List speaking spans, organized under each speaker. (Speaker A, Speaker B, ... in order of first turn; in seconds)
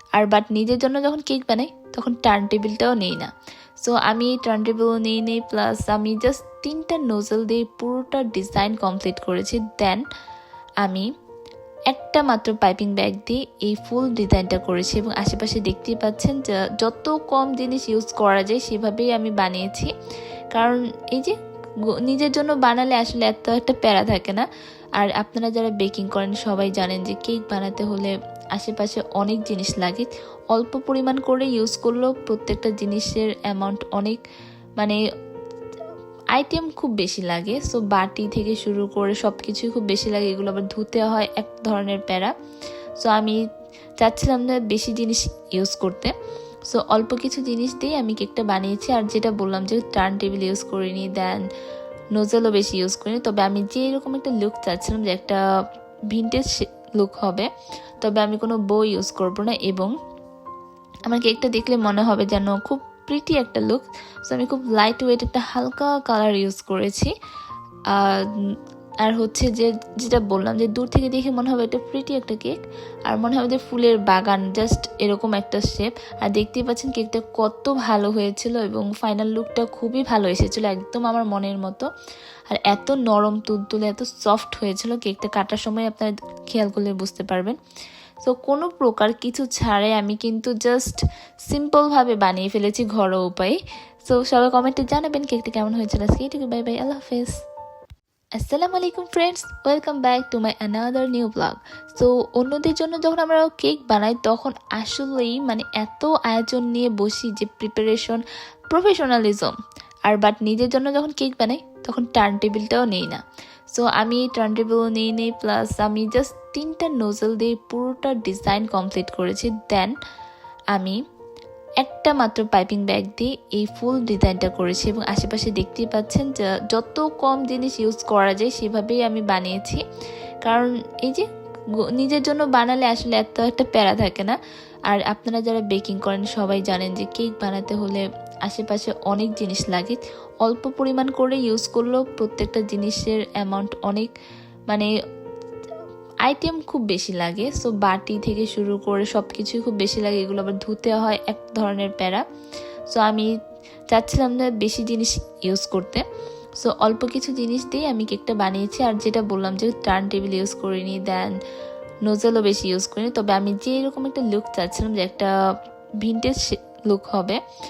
Speaker A: 0.1-10.0, 10.8-11.1, 11.9-19.9, 20.5-21.3, 21.9-24.4, 25.0-34.2, 36.3-42.3, 43.0-43.4, 44.0-46.1, 46.7-51.4, 52.1-55.4, 56.1-57.5, 58.0-59.9, 61.1-67.1, 67.9-68.3, 69.0-81.9, 82.5-87.6, 88.2-97.4, 98.4-109.5, 110.1-120.0, 120.7-121.0, 121.8-129.8, 130.4-131.3, 131.8-134.4, 134.9-144.1, 146.2-152.2, 152.9-153.3, 153.9-156.0, 156.6-161.3, 162.0-165.3, 166.0-167.4